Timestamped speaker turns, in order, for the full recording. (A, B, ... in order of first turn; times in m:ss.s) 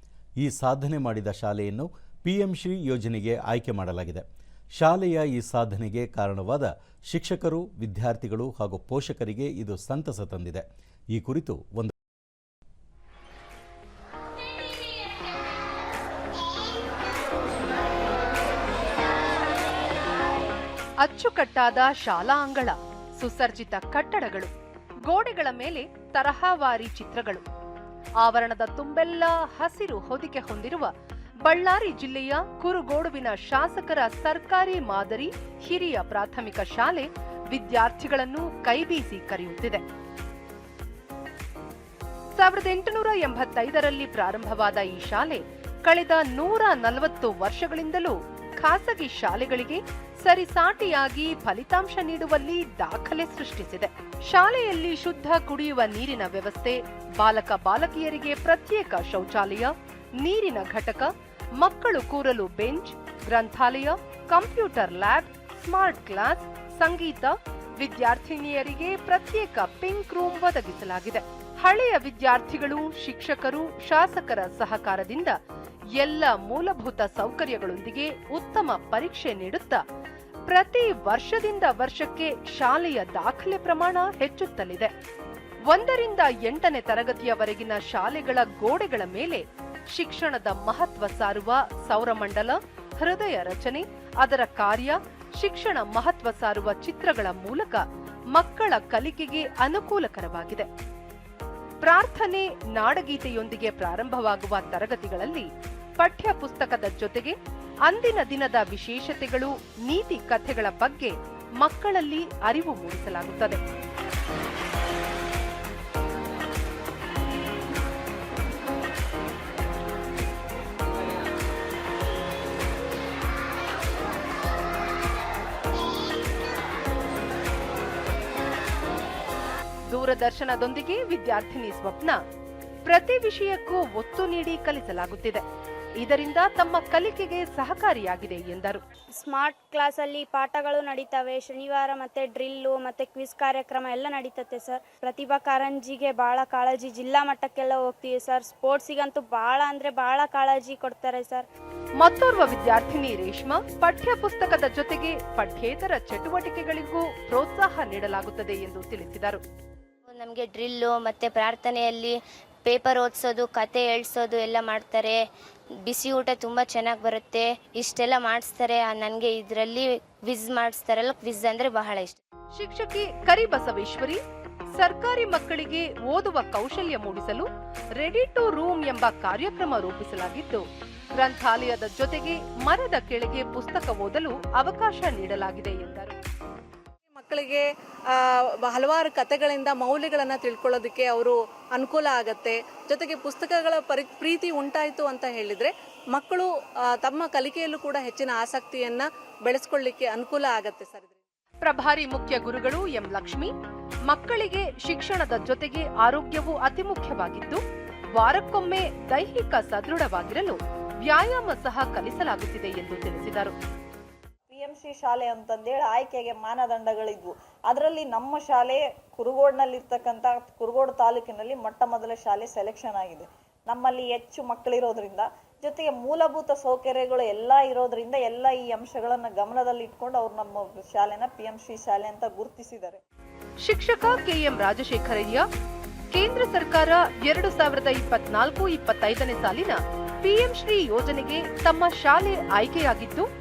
0:00.4-0:04.2 A
0:04.8-0:11.9 A
0:21.0-0:24.5 B
0:25.1-0:27.5 B
0:28.2-0:30.9 B
0:31.4-0:39.8 B
0:42.4-1:15.4 B
1:16.0-1:19.8 B
1:20.5-1:24.9 B
1:25.7-1:37.8 B
1:38.3-1:40.7 B
1:41.8-1:45.5 B
1:46.0-1:47.4 B
1:47.9-1:53.6 B
2:09.9-2:12.2 B
2:12.8-2:15.4 B
2:16.0-2:18.8 B
2:19.2-2:31.5 C
2:32.0-2:39.4 B
2:40.1-2:45.2 D
2:45.8-2:52.2 D
2:52.6-2:54.2 B
2:54.8-3:00.6 B
3:01.2-3:06.2 B
3:07.1-3:21.2 E
3:21.6-3:23.5 B
3:24.1-3:27.6 B
3:28.2-3:33.5 B
3:34.5-3:53.0 F
3:53.6-3:55.4 B
3:56.1-4:03.3 B